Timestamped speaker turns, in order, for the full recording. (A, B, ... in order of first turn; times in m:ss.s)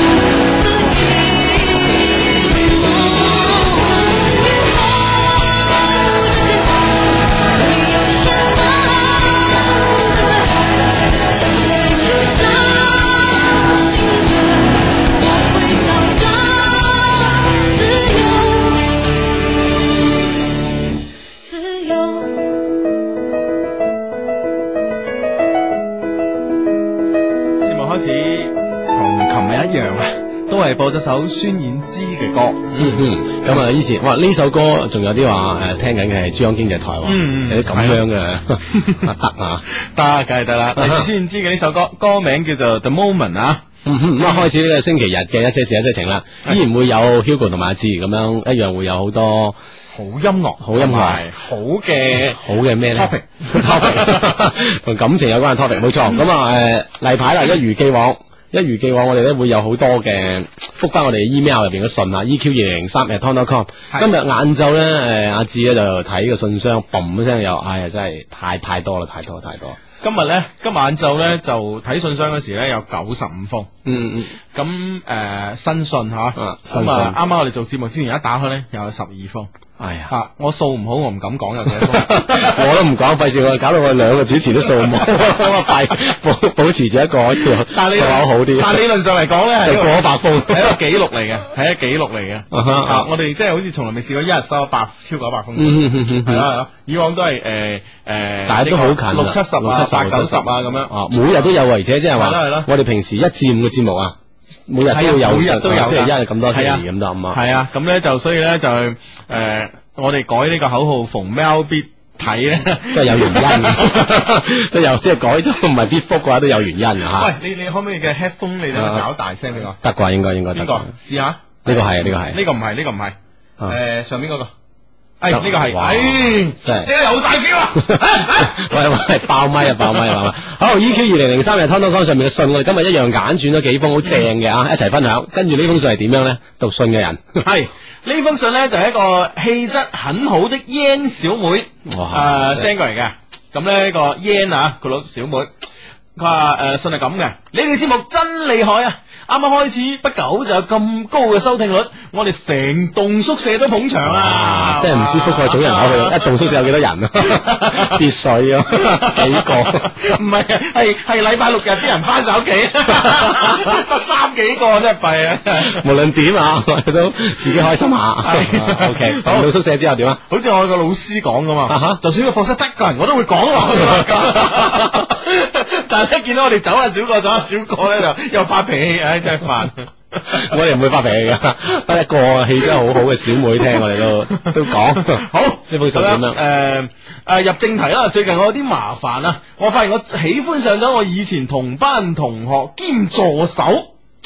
0:00.3-0:18.9 A
0:21.4-0:22.5 A
0:27.6-0:33.0 B
0:32.8-0:39.6 C
0:37.0-0:38.0 B
0:38.7-0:39.1 B
0:39.8-0:43.6 B
0:40.8-0:41.1 C
0:43.8-0:49.6 C
0:44.2-0:44.5 B
0:49.9-0:54.2 B
0:50.6-0:51.3 C
0:52.4-1:09.8 C
1:10.0-1:13.7 B
1:13.8-1:14.4 C
1:14.5-1:19.5 B
1:16.4-1:17.2 C
1:19.8-1:20.1 C
1:20.1-1:22.7 B
1:21.9-1:28.8 C
1:27.7-1:40.9 B
1:29.6-1:30.8 C
1:32.5-1:33.1 C
1:35.6-1:36.5 C
1:38.5-1:47.4 C
1:42.2-1:42.7 B
1:44.9-1:54.1 B
1:52.9-1:57.3 C
1:57.2-1:59.8 B
1:58.7-1:59.0 C
1:59.8-2:00.9 C
2:00.5-2:04.5 B
2:01.6-2:02.4 C
2:05.2-2:08.7 B
2:05.3-2:06.9 C
2:07.8-2:17.4 C
2:17.4-2:25.5 B
2:21.9-2:22.7 C
2:26.2-2:36.5 B
2:34.1-2:39.9 C
2:37.2-2:38.0 B
2:38.7-2:45.8 B
2:45.6-2:50.2 C
2:48.2-2:49.5 B
2:50.3-3:00.4 B
2:51.7-2:52.0 C
2:54.4-2:54.8 C
3:00.3-3:06.4 C
3:04.4-3:13.9 B